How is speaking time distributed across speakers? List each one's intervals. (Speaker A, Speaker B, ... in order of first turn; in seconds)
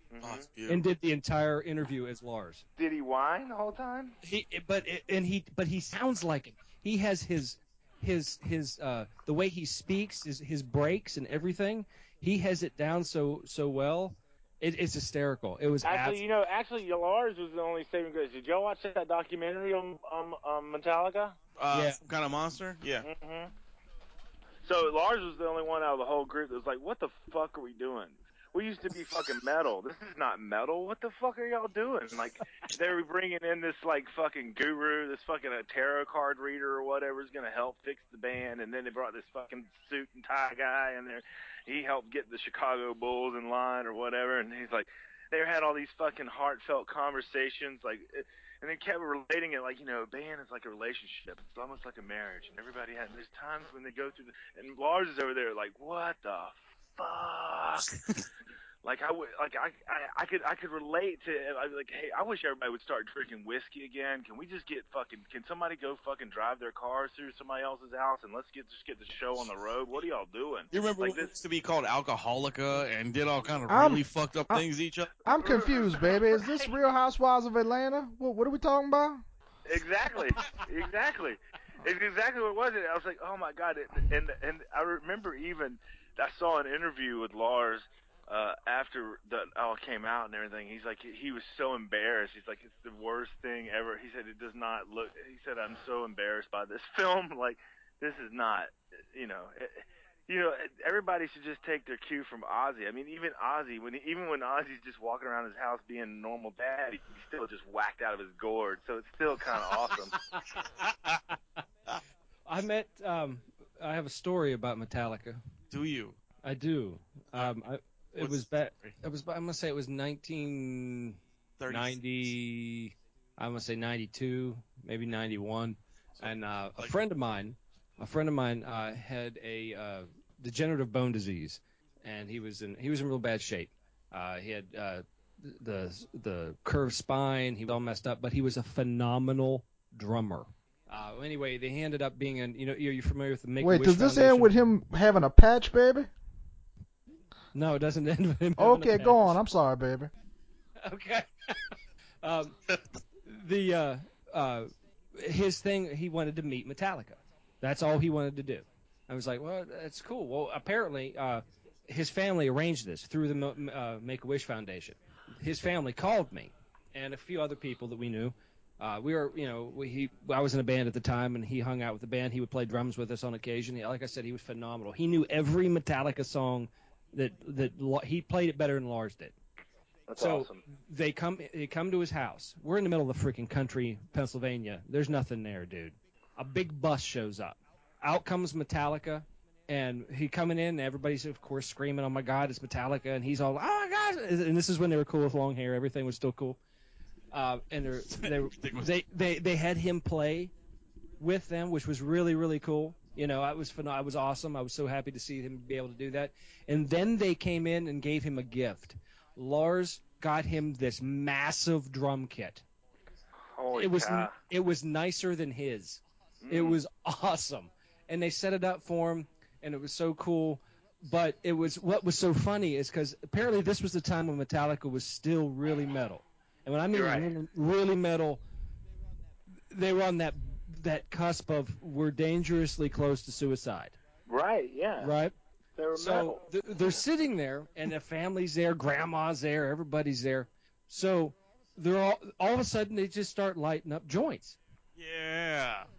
Speaker A: 0.1-0.5, 2.8-4.2, 15.8-21.4, 23.0-23.5, 24.6-58.0, 58.8-71.3, 75.3-76.7, 79.7-110.1, 180.1-180.6, 213.6-214.3, 216.4-216.8, 226.9-227.3, 234.3-235.1, 235.8-236.4
Speaker B: 0.2-0.8, 21.6-23.1, 57.9-58.2, 70.7-75.2, 115.7-116.2, 118.2-119.0, 121.6-122.3, 126.2-127.0, 198.1-198.9, 245.0-245.9
Speaker C: 0.7-2.6, 4.2-16.2, 21.7-22.0, 110.3-111.6, 112.5-115.4, 116.4-144.5, 147.5-149.4, 150.8-152.6, 153.2-179.3, 180.2-196.6, 197.3-200.5, 201.2-212.6, 213.7-228.4, 229.7-234.0, 235.0-235.3, 235.9-244.6
Speaker D: 73.7-74.7, 75.2-79.2, 143.6-146.1, 148.6-150.1